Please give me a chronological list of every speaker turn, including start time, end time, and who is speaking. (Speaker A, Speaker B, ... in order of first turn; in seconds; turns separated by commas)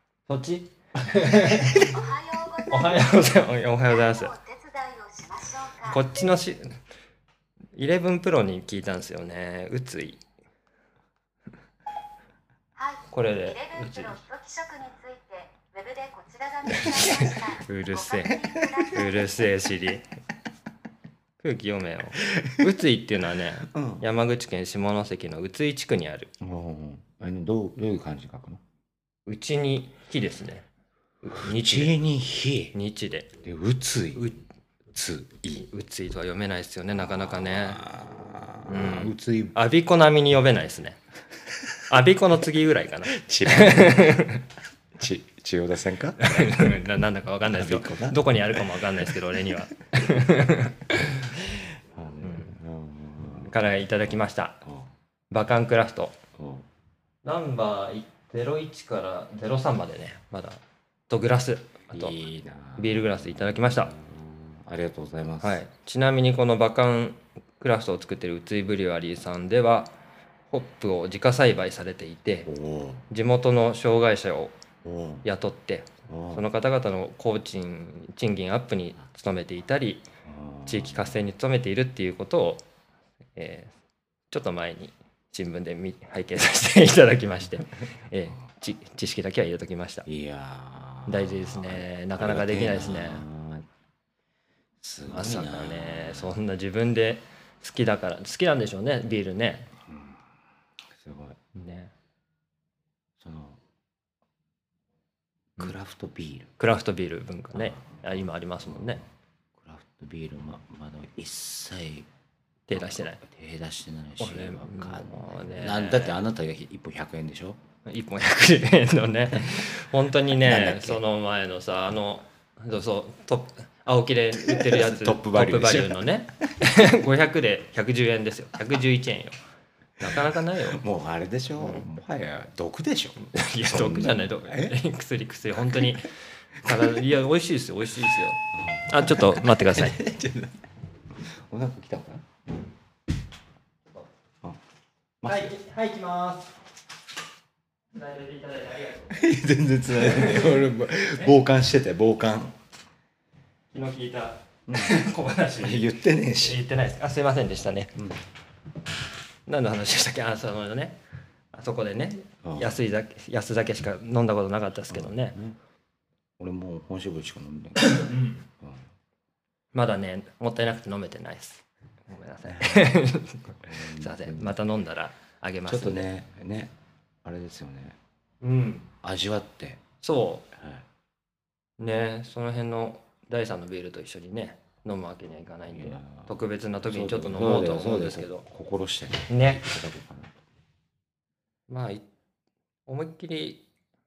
Speaker A: 0.3-2.0, Speaker B: 1.7-3.1, Speaker A: 2.6-4.3, Speaker B: 3.9-6.2, Speaker A: 5.9-6.8, Speaker A: 7.8-10.2, Speaker B: 12.8-19.3, Speaker A: 13.1-14.2, Speaker A: 16.8-18.4, Speaker C: 16.9-17.3, Speaker C: 18.3-19.1, Speaker A: 18.9-20.1, Speaker A: 21.4-26.3, Speaker C: 22.3-22.6, Speaker C: 23.7-24.1, Speaker C: 26.4-28.6, Speaker A: 29.2-30.7, Speaker A: 31.2-32.0, Speaker C: 31.3-32.8, Speaker A: 32.7-33.3, Speaker C: 33.4-34.3, Speaker A: 34.1-34.4, Speaker C: 34.9-35.6, Speaker A: 35.6-37.8, Speaker C: 36.9-39.6, Speaker A: 38.6-41.0, Speaker A: 41.9-44.4, Speaker C: 43.1-44.2, Speaker C: 44.9-46.8, Speaker A: 46.2-51.3, Speaker C: 47.5-49.1, Speaker C: 51.3-53.5, Speaker A: 52.2-52.5, Speaker A: 53.4-54.6, Speaker C: 54.6-54.9, Speaker A: 55.3-56.2, Speaker C: 56.4-56.6, Speaker A: 57.2-62.2, Speaker C: 61.9-65.6, Speaker A: 62.8-63.9, Speaker A: 65.4-69.9, Speaker A: 70.5-72.5, Speaker C: 72.5-73.0, Speaker A: 73.1-74.5, Speaker C: 74.8-75.2, Speaker A: 75.2-80.0, Speaker C: 76.1-76.4, Speaker C: 80.2-81.2, Speaker A: 80.7-82.6, Speaker A: 83.3-83.7, Speaker A: 84.3-90.0, Speaker C: 90.0-93.7, Speaker A: 91.0-93.2, Speaker C: 94.8-96.3, Speaker A: 95.1-99.7, Speaker C: 99.9-100.3, Speaker C: 100.9-101.4, Speaker A: 101.5-101.9, Speaker C: 103.2-103.6, Speaker C: 105.6-106.5, Speaker A: 106.6-109.0, Speaker C: 107.5-112.1, Speaker A: 112.7-113.2, Speaker C: 112.7-117.6, Speaker A: 114.2-116.2, Speaker A: 117.8-129.3, Speaker C: 119.3-119.6, Speaker C: 120.4-121.0, Speaker C: 124.4-126.0, Speaker A: 130.0-130.8, Speaker C: 130.0-134.8, Speaker A: 131.6-131.8, Speaker A: 133.2-140.0, Speaker C: 135.5-135.9, Speaker C: 136.6-137.0, Speaker C: 138.5-140.7, Speaker C: 141.2-142.3, Speaker C: 145.2-145.5, Speaker A: 145.2-146.6, Speaker A: 147.9-149.3, Speaker C: 149.1-152.6, Speaker A: 149.9-151.3, Speaker A: 153.7-155.8, Speaker C: 154.7-155.0, Speaker C: 155.6-156.6, Speaker A: 156.4-158.0, Speaker C: 157.9-158.2, Speaker A: 159.4-161.0, Speaker A: 161.5-165.3, Speaker C: 162.4-162.8, Speaker C: 164.9-165.6, Speaker C: 166.4-168.0, Speaker A: 167.8-168.4, Speaker C: 168.6-168.8, Speaker A: 169.7-176.1, Speaker C: 172.5-173.0, Speaker C: 173.6-174.6, Speaker C: 175.7-178.0, Speaker A: 178.4-178.9, Speaker C: 179.0-179.8, Speaker A: 180.0-180.5, Speaker C: 180.5-180.8, Speaker A: 181.8-188.4, Speaker C: 185.7-190.4, Speaker A: 189.3-189.6, Speaker A: 191.7-192.0, Speaker A: 192.8-193.6